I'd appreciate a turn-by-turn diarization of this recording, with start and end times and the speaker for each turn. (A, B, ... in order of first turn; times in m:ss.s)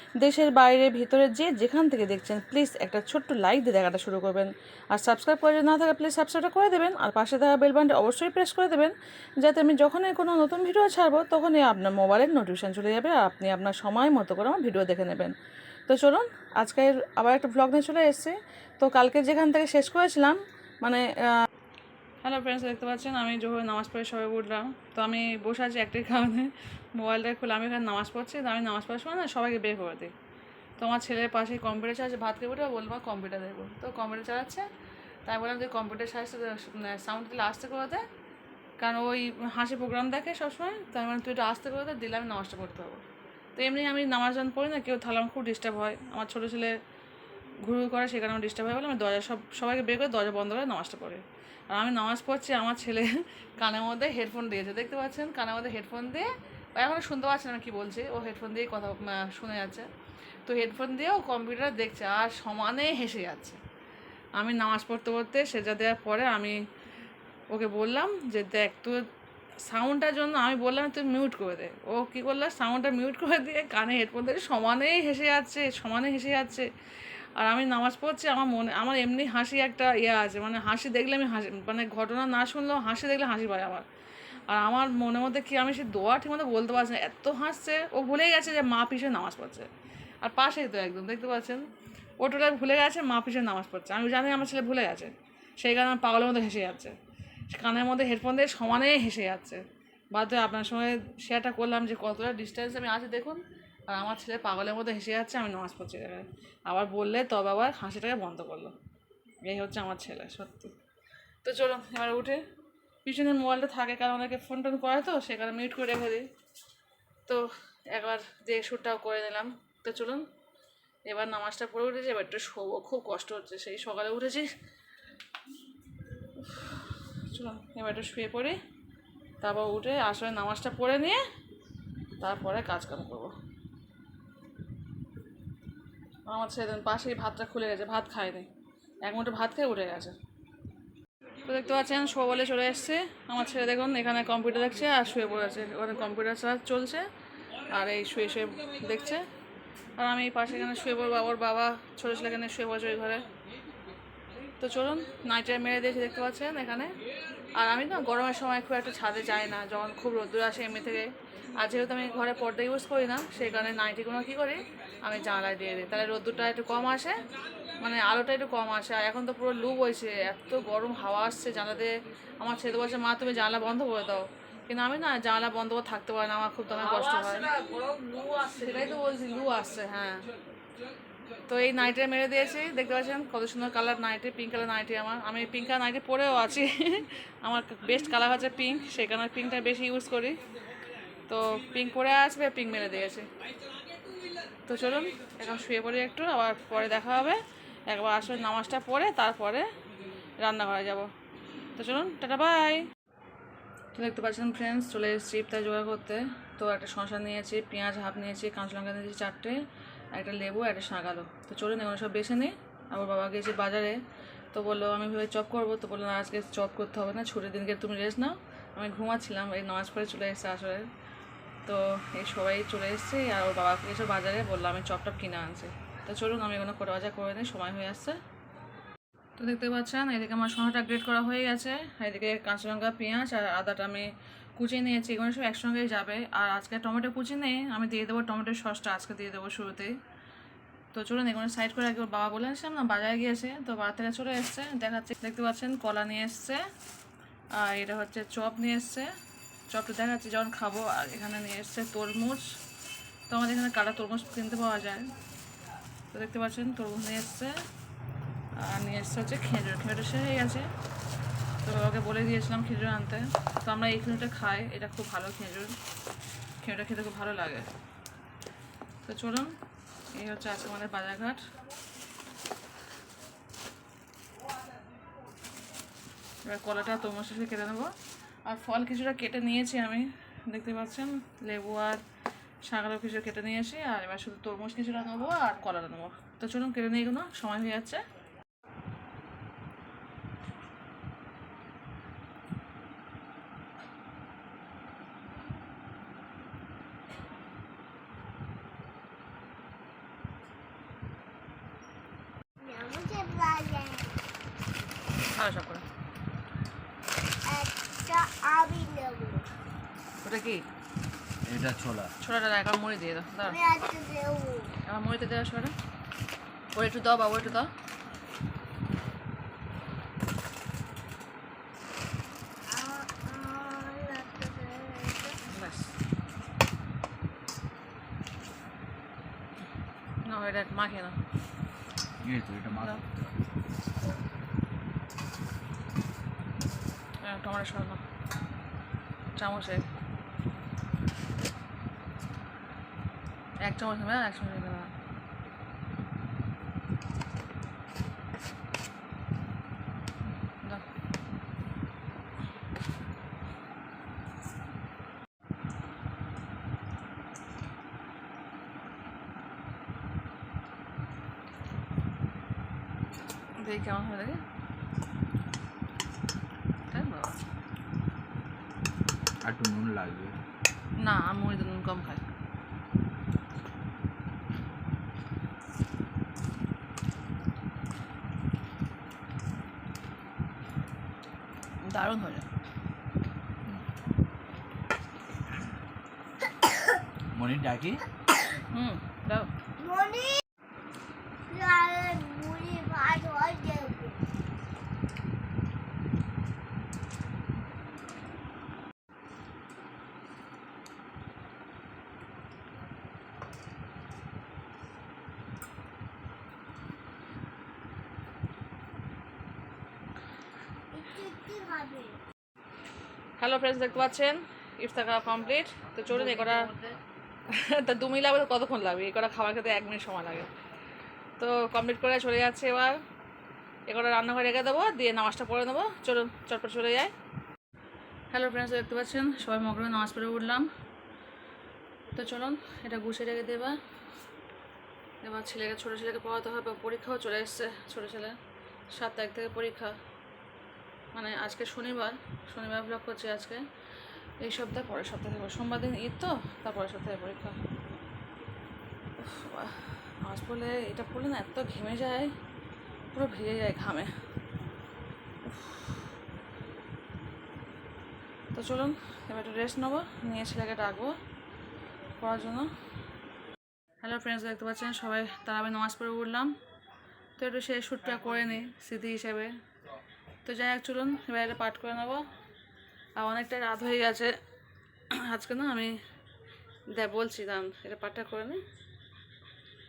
0:00.2-0:15.4 A
0:15.9-0:21.4 A
0:22.2-0:30.1 A
0:30.8-0:34.7 A
0:35.2-0:38.0 A
0:38.8-0:43.0 A
0:43.6-0:46.7 A
0:47.6-0:59.9 A
1:00.4-1:03.6 A
1:04.4-1:06.6 A
1:07.5-1:09.0 A
1:09.6-1:16.7 A
1:17.4-1:23.8 A
1:24.5-1:29.7 A
1:30.2-1:31.7 A
1:32.2-1:37.0 A
1:37.5-1:48.8 A
1:49.4-1:50.7 A
1:51.4-1:52.4 A
1:53.0-1:56.3 A
1:57.2-2:00.2 A
2:01.1-2:04.5 A
2:06.4-2:08.6 A
2:09.4-2:11.2 A
2:12.2-2:13.3 A
2:16.3-2:18.5 A
2:19.0-2:20.2 A
2:21.4-2:27.0 A
2:27.7-2:29.2 A
2:30.0-2:33.2 A
2:34.6-2:36.9 A
2:37.5-2:47.2 A
2:47.8-2:57.6 A
2:58.5-3:00.2 A
3:01.5-3:10.4 A
3:11.3-3:13.3 A
3:14.7-3:19.7 A
3:20.4-3:21.1 A
3:21.8-3:22.9 A
3:23.9-3:29.6 A
3:30.1-3:34.0 A
3:34.5-3:40.9 A
3:41.6-3:48.2 A
3:49.4-4:00.0 A
4:00.9-4:06.6 A
4:07.5-4:09.1 A
4:09.7-4:12.4 A
4:13.3-4:15.1 A
4:16.1-4:17.6 A
4:18.6-4:20.7 A
4:21.6-4:25.7 A
4:26.6-4:27.7 A
4:29.0-4:29.5 A
4:30.1-4:31.5 A
4:36.4-4:37.9 A
4:38.4-4:42.0 A
4:42.6-4:48.0 A
5:02.6-5:04.2 B
5:05.3-5:05.8 A
5:07.5-5:09.4 B
5:10.2-5:10.6 A
5:11.4-5:12.1 C
5:12.2-5:13.6 A
5:13.4-5:14.7 B
5:14.8-5:15.7 A
5:16.7-5:17.7 A
5:22.7-5:25.4 B
5:25.5-5:25.9 A
5:30.2-5:31.2 A
5:32.2-5:33.3 C
5:32.7-5:33.0 A
5:37.2-5:38.0 A
5:39.3-5:39.8 A
5:43.6-5:44.9 A
6:03.6-6:04.4 A
6:06.9-6:07.3 A
6:09.4-6:10.4 C
6:11.0-6:12.2 A
6:21.8-6:22.4 A
6:27.3-6:28.0 C
6:28.7-6:29.5 A
6:29.8-6:30.4 B
6:31.5-6:34.2 B
6:50.9-6:52.2 B
6:53.4-6:56.7 A
6:57.5-7:00.5 A
7:01.4-7:03.0 A
7:03.9-7:07.1 A
7:08.3-7:10.7 A
7:12.1-7:13.8 A
7:15.2-7:18.4 A
7:18.9-7:20.0 A
7:21.1-7:23.6 A
7:24.4-7:27.6 A
7:29.2-7:32.3 A
7:33.1-7:34.1 A
7:35.4-7:36.1 A
7:38.5-7:41.2 A
7:42.2-7:42.7 A
7:44.0-7:46.5 A
7:47.4-7:49.5 A
7:50.4-7:52.2 A
7:53.2-7:54.3 A
7:55.1-7:55.9 A
7:56.9-7:58.6 A